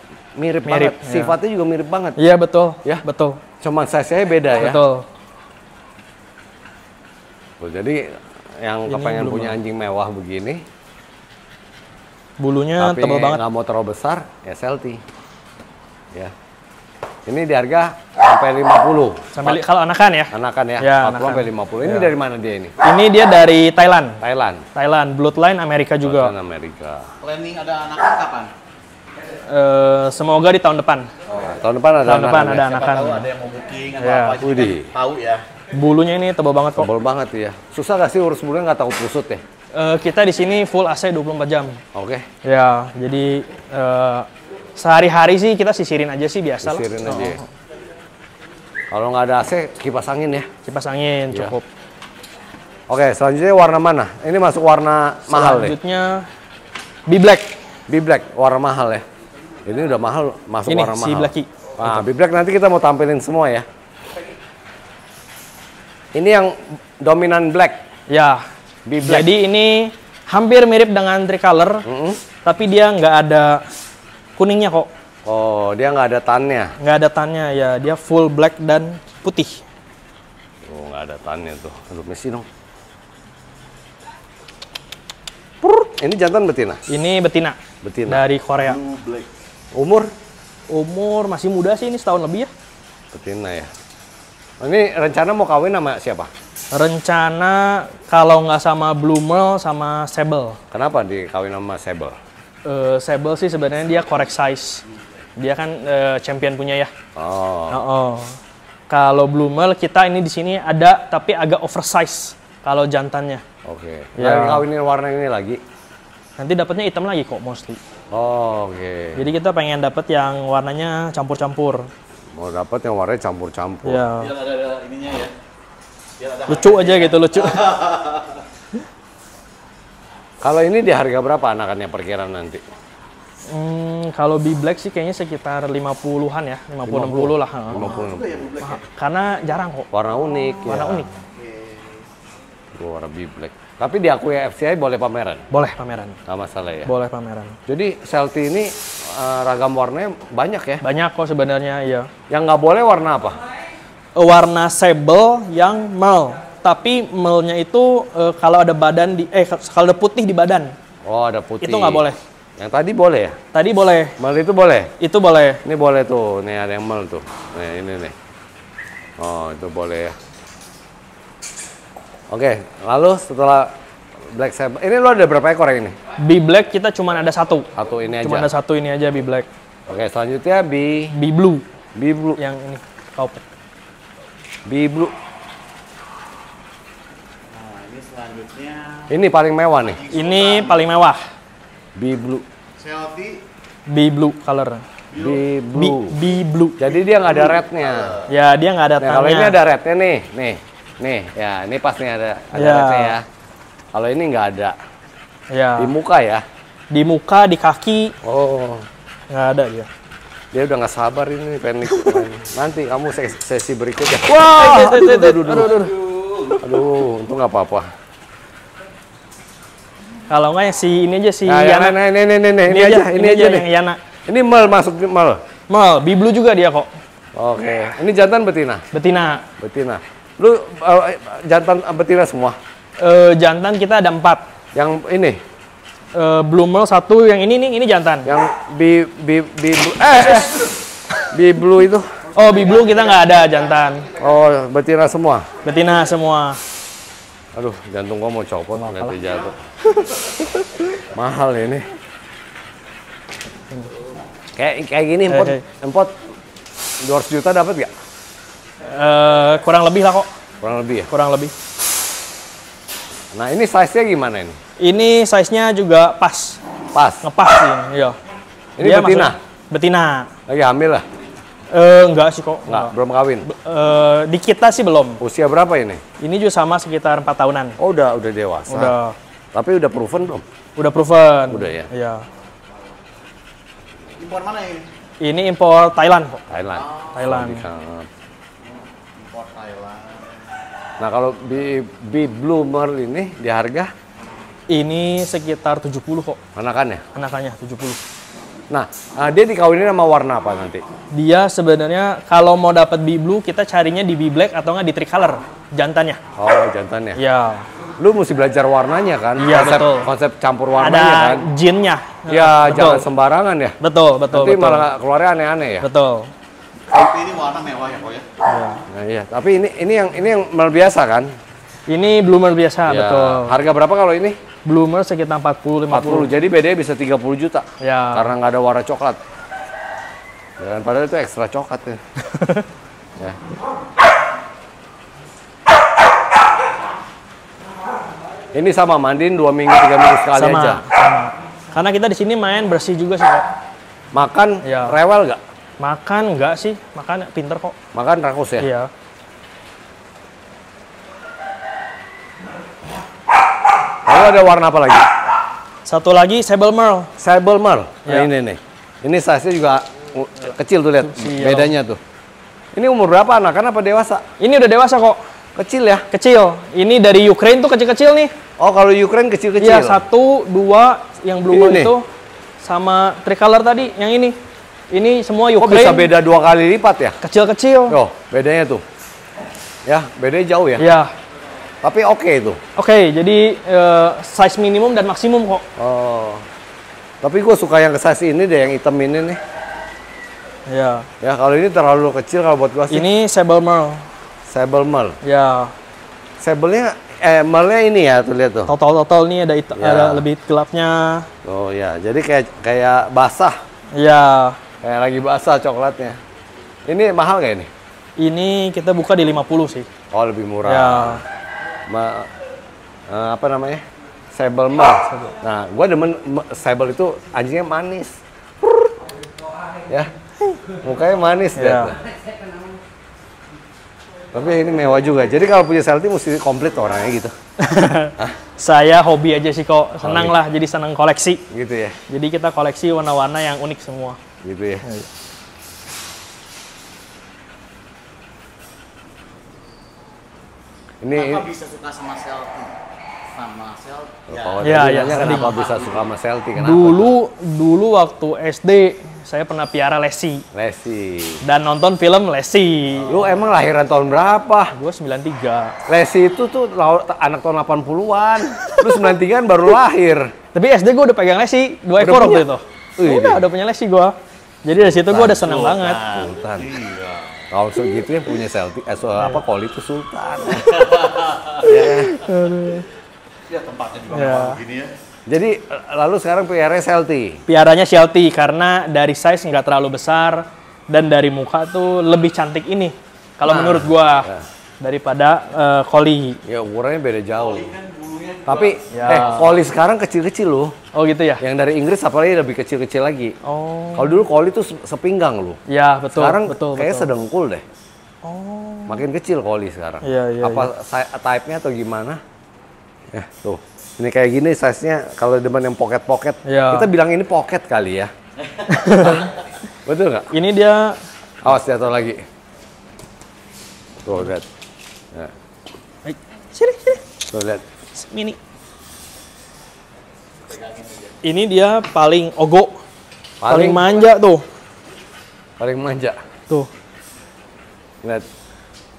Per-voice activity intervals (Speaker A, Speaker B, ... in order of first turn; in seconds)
Speaker A: 0.4-2.2, 3.6-4.8, 7.6-8.0, 8.6-10.6, 12.8-15.0, 17.2-19.6, 20.3-22.7, 24.2-24.6, 26.0-27.1, 31.3-32.7, 34.4-34.9, 36.8-39.4, 41.9-42.2, 46.6-47.4, 48.9-50.5, 52.9-55.8, 57.9-59.0, 59.7-63.7, 66.1-67.8, 68.8-69.3, 71.8-72.2, 75.2-76.7, 80.7-82.5, 85.6-86.8, 87.8-88.2, 88.8-90.1, 93.1-93.7, 94.6-96.3, 100.7-102.1, 107.2-107.8, 113.7-115.6, 118.1-119.3, 122.4-124.0, 130.4-132.6, 136.8-138.5, 139.9-141.1, 142.8-145.4, 146.3-146.9, 147.7-150.8, 152.3-153.4, 161.1-162.1, 162.6-163.3, 164.2-164.9, 165.6-168.1, 169.2-170.1, 172.3-173.7, 174.3-175.9, 177.8-178.5, 179.9-181.1, 181.9-182.4, 184.7-185.1, 189.1-190.0, 192.0-192.4, 195.1-196.1, 196.8-198.2, 199.0-203.2, 203.9-204.7, 205.8-206.4, 208.2-208.8, 210.5-215.8, 216.6-217.8, 221.4-223.7, 224.3-225.4, 227.3-228.8, 229.6-232.6, 234.7-235.4, 238.2-242.1, 244.1-245.5, 247.6-249.6, 250.9-251.9, 254.6-256.1, 257.0-257.9, 260.6-261.1, 263.3-264.6, 266.9-267.3, 268.8-269.4, 270.5-271.1, 272.7-273.5, 275.2-276.0, 277.8-278.9, 279.5-280.4, 281.5-281.9, 286.5-288.1, 291.0-293.9, 296.6-297.0, 298.7-300.8, 306.4-307.2, 308.0-311.5, 312.3-313.8, 314.3-315.9, 318.9-321.3, 322.9-324.4, 325.9-329.2, 330.6-332.0, 338.5-340.8, 344.1-345.4, 347.9-348.7, 354.1-355.1, 357.2-362.0, 362.7-364.2, 365.6-366.0, 368.6-370.0, 371.5-371.9, 375.6-377.2, 377.9-378.8, 379.9-380.9, 381.8-382.6, 385.8-386.4, 387.2-389.4, 391.2-393.1, 394.5-395.2, 396.4-398.7, 399.7-400.2, 401.4-403.6, 404.8-406.2, 406.9-407.7, 410.1-411.2, 411.9-412.3, 413.1-413.8, 414.3-418.1, 420.8-421.9, 424.3-427.3, 430.0-430.4, 431.5-432.0, 434.4-434.8, 441.0-441.5, 444.3-447.1, 450.5-451.4, 453.1-454.7, 455.9-460.3, 462.0-463.4, 464.7-466.8, 467.5-471.1, 471.6-472.2, 475.3-477.4, 483.5-484.5, 486.4-487.8, 488.4-490.7, 491.4-493.3, 493.9-495.6, 496.1-497.6, 498.9-502.2, 503.1-508.1, 509.9-510.3, 511.4-512.2, 514.0-514.4, 517.3-517.6, 523.4-523.9, 525.6-526.2
Speaker B: 0.6-1.4, 2.2-3.4, 4.6-5.0, 8.9-9.6, 12.4-13.4, 19.3-22.1, 22.8-24.2, 24.7-26.3, 29.5-31.1, 32.0-33.3, 34.0-34.4, 35.7-36.9, 39.7-41.8, 42.4-47.3, 50.7-51.6, 55.3-56.3, 57.1-57.5, 60.7-62.0, 68.1-68.4, 69.0-71.8, 72.4-73.6, 74.4-74.9, 76.8-79.6, 86.9-87.6, 88.1-88.8, 90.7-92.5, 96.7-100.6, 102.7-104.8, 105.4-106.9, 107.7-108.4, 108.9-113.4, 114.2-114.6, 116.4-117.8, 119.2-121.9, 123.8-124.3, 126.5-127.9, 133.5-138.0, 138.6-139.9, 140.6-141.1, 145.5-146.2, 146.8-147.6, 150.8-152.1, 154.2-160.7, 161.6-162.2, 163.5-164.2, 165.0-165.6, 176.2-177.7, 178.2-179.5, 181.1-181.6, 182.4-183.4, 190.1-191.2, 193.9-194.8, 195.7-196.8, 198.3-199.6, 202.5-203.2, 205.5-205.9, 206.9-208.1, 209.3-209.9, 211.9-212.2, 214.3-216.6, 220.3-222.0, 222.7-224.0, 225.7-226.9, 228.9-229.4, 233.0-234.4, 236.1-238.3, 242.3-244.1, 245.6-246.6, 248.8-249.2, 249.9-250.8, 255.3-255.6, 258.8-260.3, 261.1-261.5, 264.8-266.6, 267.2-268.2, 268.8-270.3, 271.7-272.9, 273.4-275.2, 276.2-277.8, 278.7-279.2, 280.8-282.2, 285.2-286.4, 287.1-287.7, 294.7-296.4, 297.1-298.0, 301.1-306.2, 307.2-307.7, 309.4-310.1, 310.8-313.1, 313.8-314.9, 315.8-316.3, 318.4-318.8, 321.9-323.6, 324.6-326.3, 327.8-328.3, 332.2-332.7, 340.3-343.5, 344.6-344.9, 345.8-347.7, 348.6-348.9, 355.8-357.1, 361.0-361.7, 364.4-365.2, 366.1-368.3, 369.6-372.1, 372.6-374.4, 374.9-376.1, 377.2-378.0, 380.8-381.1, 382.8-385.6, 390.7-391.1, 392.9-394.1, 395.2-395.7, 398.7-401.3, 403.9-404.6, 408.2-409.9, 410.7-411.2, 415.1-415.3, 421.6-421.9, 427.6-431.4, 432.1-434.2, 444.6-445.6, 446.6-450.4, 451.4-453.2, 454.7-455.7, 458.5-459.0, 460.5-466.2, 471.8-472.8, 474.1-474.6, 477.5-484.3, 484.8-486.4, 488.9-489.5, 490.9-491.4, 493.4-494.2, 495.7-497.1, 498.2-499.0, 500.0-500.7, 506.4-506.9, 508.6-509.4, 510.3-511.0, 516.0-517.0, 517.9-518.4, 521.2-522.8, 523.5-524.4
Speaker C: 27.2-28.5, 32.6-35.5, 124.2-125.3, 126.2-128.4, 138.0-138.8, 141.4-142.0, 187.5-189.1, 189.9-190.8, 192.8-193.4, 195.1-195.4, 284.2-284.9, 286.8-287.1, 289.1-290.4, 316.9-318.2, 441.1-442.7, 443.3-446.1, 466.1-467.2, 470.7-471.6, 473.5-474.9, 487.4-489.2, 520.6-520.9